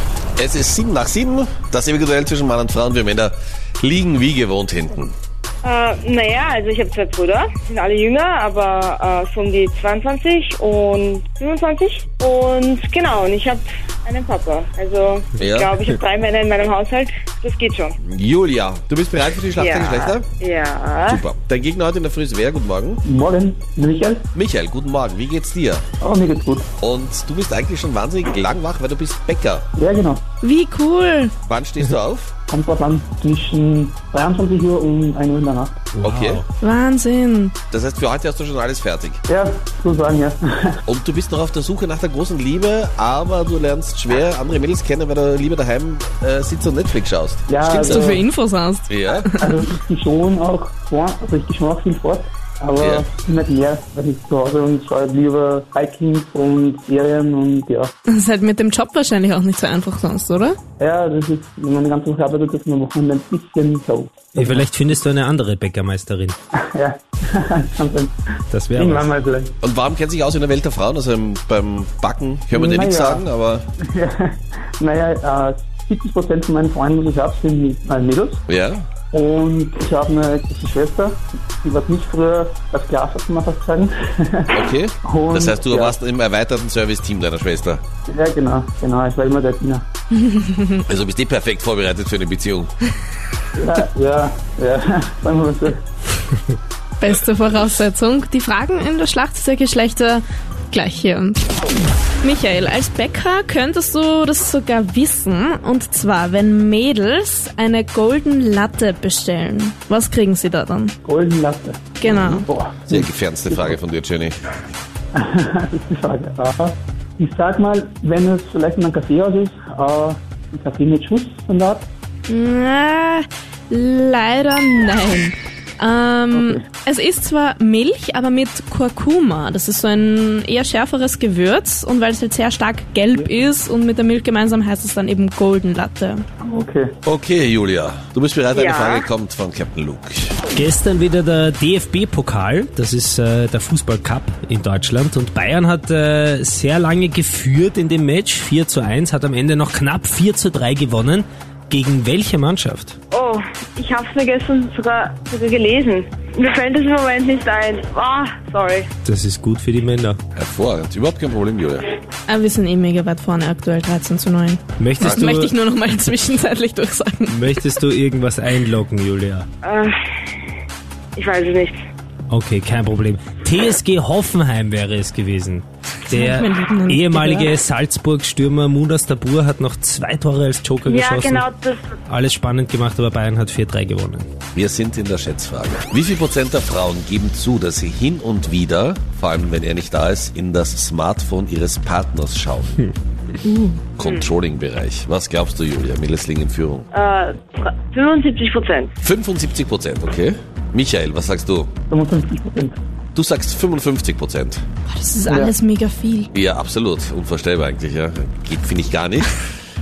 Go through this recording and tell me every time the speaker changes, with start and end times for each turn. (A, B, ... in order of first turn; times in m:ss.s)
0:00.4-0:05.1 A
0:05.6-0:18.0 B
0:15.4-0:15.7 A
0:18.0-0:20.3 A
0:19.6-0:21.2 B
0:21.1-0:23.0 A
0:23.0-0:24.3 C
0:24.4-0:25.8 A
0:26.0-0:26.7 C
0:26.8-0:29.7 A
0:29.8-0:30.2 C
0:30.4-0:31.3 D
0:31.5-0:32.3 A
0:32.5-0:35.8 C
0:36.0-0:36.4 E
0:36.0-0:36.4 A
0:36.6-0:37.6 D
0:37.7-0:39.2 A
0:39.3-0:40.8 C
0:40.9-0:48.2 A
0:47.5-0:48.2 C
0:47.7-0:49.6 D
0:48.9-0:49.3 A
0:49.4-0:57.9 C
0:52.8-0:53.1 A
0:58.1-1:00.6 D
1:00.8-1:04.8 C
1:04.4-1:06.4 E
1:06.6-1:08.2 C
1:08.5-1:09.0 E
1:08.7-1:09.6 C
1:09.6-1:13.7 A
1:12.5-1:13.3 C
1:13.8-1:18.4 C
1:18.5-1:18.8 A
1:19.1-1:26.0 C
1:24.5-1:27.8 A
1:28.1-1:29.8 C
1:30.2-1:30.8 D
1:30.9-1:32.7 A
1:33.6-1:35.8 C
1:37.0-1:41.4 D
1:42.2-1:51.0 D
1:51.0-1:51.9 C
1:52.0-1:52.5 D
1:52.0-1:54.4 A
1:52.5-1:53.8 C
1:55.1-2:01.9 C
2:02.3-2:16.2 D
2:06.3-2:06.6 C
2:16.4-2:17.0 C
2:17.0-2:20.4 A
2:18.5-2:19.1 B
2:20.5-2:33.0 E
2:33.1-2:38.9 B
2:39.0-2:40.2 E
2:40.4-2:41.9 A
2:42.3-2:47.4 D
2:44.8-2:45.5 E
2:47.3-2:49.5 E
2:49.6-2:49.9 B
2:51.2-2:51.8 B
2:52.3-3:01.4 E
2:56.1-2:57.5 D
3:00.8-3:01.9 B
3:02.1-3:04.3 E
3:04.5-3:12.7 A
3:13.4-3:14.3 B
3:14.0-3:16.9 A
3:16.9-3:18.9 B
3:19.0-3:21.7 A
3:21.9-3:22.8 C
3:23.2-3:24.6 A
3:24.9-3:26.3 D
3:25.3-3:25.5 C
3:26.3-3:29.4 A